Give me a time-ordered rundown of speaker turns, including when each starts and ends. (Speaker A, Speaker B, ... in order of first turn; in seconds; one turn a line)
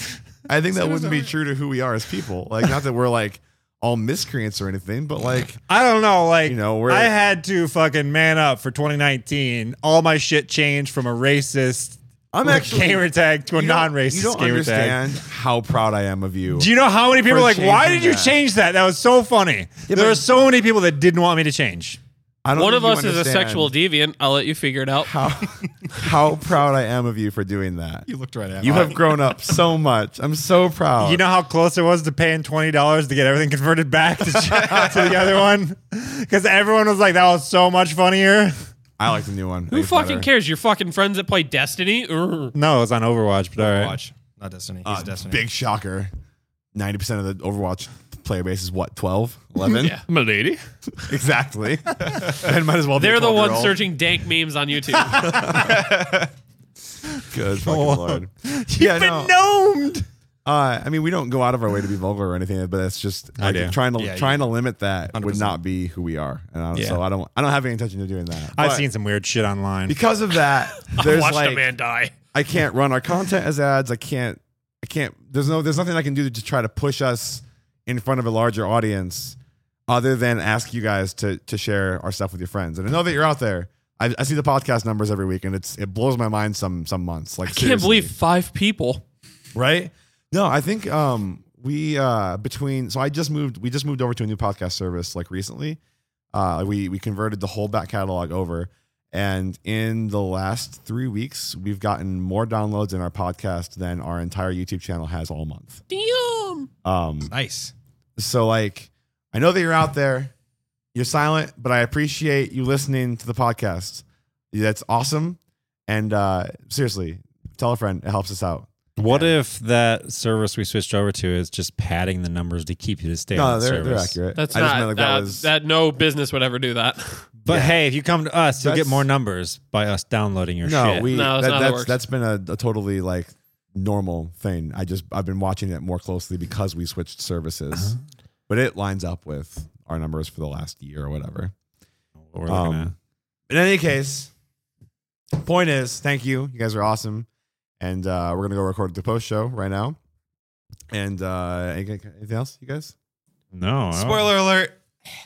Speaker A: 0.5-5.6
Speaker B: 0.8-1.3
Speaker B: 5.7-15.0
Speaker A: 6.5-7.1
Speaker A: 12.3-16.7
Speaker B: 16.5-22.0
Speaker A: 17.2-18.3
Speaker A: 19.9-20.2
Speaker A: 22.4-23.7
Speaker C: 22.6-25.1
Speaker A: 25.0-28.1
Speaker D: 28.1-29.4
Speaker A: 28.6-31.2
Speaker B: 31.0-38.6
Speaker D: 34.5-35.0
Speaker A: 34.5-35.1
Speaker A: 39.0-40.3
Speaker C: 39.7-42.5
Speaker B: 42.5-44.0
Speaker D: 43.6-45.4
Speaker A: 44.9-46.1
Speaker A: 46.8-50.0
Speaker C: 49.7-50.0
Speaker B: 50.1-51.0
Speaker A: 51.1-53.8
Speaker C: 53.0-55.6
Speaker A: 55.0-55.8
Speaker B: 55.1-55.4
Speaker D: 55.5-56.3
Speaker B: 57.2-60.1
Speaker A: 57.3-59.3
Speaker A: 60.5-68.9
Speaker B: 63.4-63.8
Speaker D: 64.0-64.5
Speaker D: 65.1-65.6
Speaker B: 68.5-70.0
Speaker A: 69.9-71.7
Speaker C: 70.8-72.1
Speaker A: 72.3-79.4
Speaker A: 79.9-88.1
Speaker C: 87.5-89.0
Speaker A: 89.5-95.8
Speaker A: 96.3-105.8
Speaker C: 105.9-106.7
Speaker A: 106.8-107.3
Speaker D: 107.3-107.7
Speaker A: 108.2-110.3
Speaker A: 110.9-119.3
Speaker B: 119.0-124.2
Speaker A: 123.3-125.5
Speaker C: 124.3-127.3
Speaker B: 127.4-131.1
Speaker A: 127.5-127.8
Speaker A: 128.6-129.1
Speaker A: 130.6-138.0
Speaker C: 131.1-131.9
Speaker A: 138.5-141.5
Speaker B: 142.2-142.9
Speaker A: 142.5-142.9
Speaker A: 143.5-144.3
Speaker A: 145.4-147.3
Speaker A: 147.8-150.0
Speaker A: 150.9-152.9
Speaker B: 153.5-154.3
Speaker D: 153.9-154.8